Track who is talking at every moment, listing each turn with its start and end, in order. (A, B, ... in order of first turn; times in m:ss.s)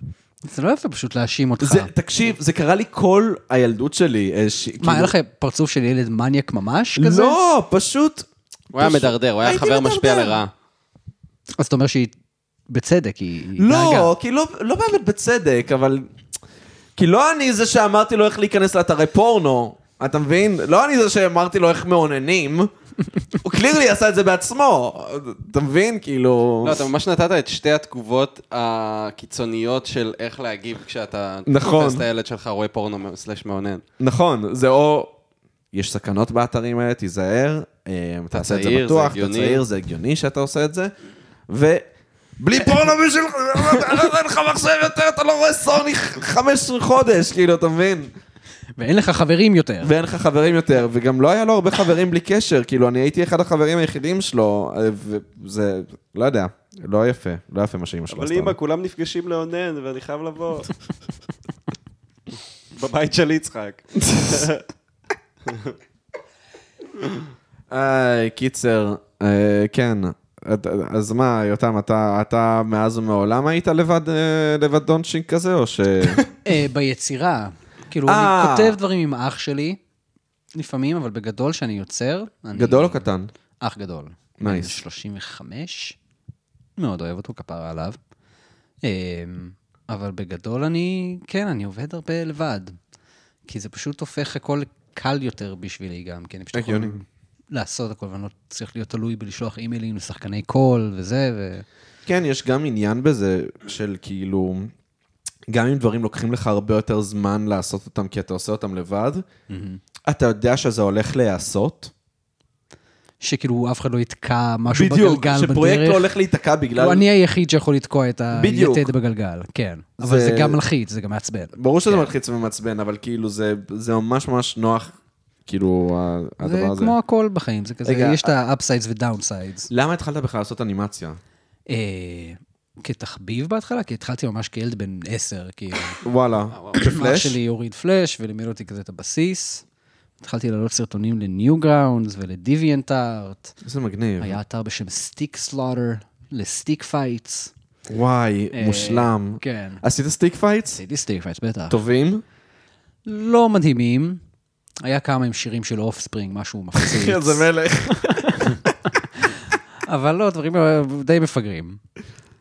0:00.4-0:01.9 A
0:01.6-0:05.1 B
0:04.8-0:07.4 A
0:07.0-0:10.4 B
0:08.7-0:10.5 C
0:11.6-0:12.1 A
0:12.7-0:14.1 A
0:13.6-0:16.1 B
0:17.0-0:22.7 B
0:23.3-0:26.9 B
0:26.6-0:33.8 C
0:31.5-0:32.0 B
0:34.0-0:35.1 B
0:35.7-0:40.9 B
0:38.3-0:39.6 C
0:41.5-0:41.8 B
0:42.4-0:48.1 B
0:48.8-0:49.9 A
0:49.8-0:58.6 B
0:58.1-1:00.7 C
1:02.7-1:04.6 C
1:04.0-1:04.5 B
1:05.5-1:05.7 C
1:07.7-1:16.2 B
1:16.4-1:19.8 A
1:18.0-1:18.8 B
1:20.5-1:23.0 A
1:22.5-1:23.3 B
1:23.6-1:26.0 A
1:24.4-1:24.8 B
1:26.8-1:28.0 A
1:28.8-1:32.8 A
1:33.4-1:41.6 A
1:36.5-1:36.9 B
1:42.0-1:44.7 B
1:45.5-1:49.2 B
1:49.5-1:49.8 A
1:50.0-1:51.9 B
1:53.2-1:56.1 A
1:54.7-1:57.0 B
1:56.8-2:02.1 A
1:58.3-1:58.9 B
2:00.0-2:00.6 B
2:01.5-2:04.9 B
2:05.4-2:07.0 B
2:06.4-2:09.7 A
2:07.8-2:08.3 B
2:09.7-2:11.2 B
2:11.7-2:16.0 A
2:16.0-2:17.4 B
2:16.5-2:16.8 C
2:16.8-2:19.6 A
2:20.2-2:23.5 A
2:23.6-2:24.4 B
2:24.2-2:27.5 A
2:27.9-2:30.8 B
2:28.5-2:29.8 A
2:30.7-2:31.8 A
2:31.7-2:32.2 B
2:33.0-2:34.2 A
2:34.8-2:38.6 A
2:36.8-2:38.7 B
2:39.1-2:41.8 A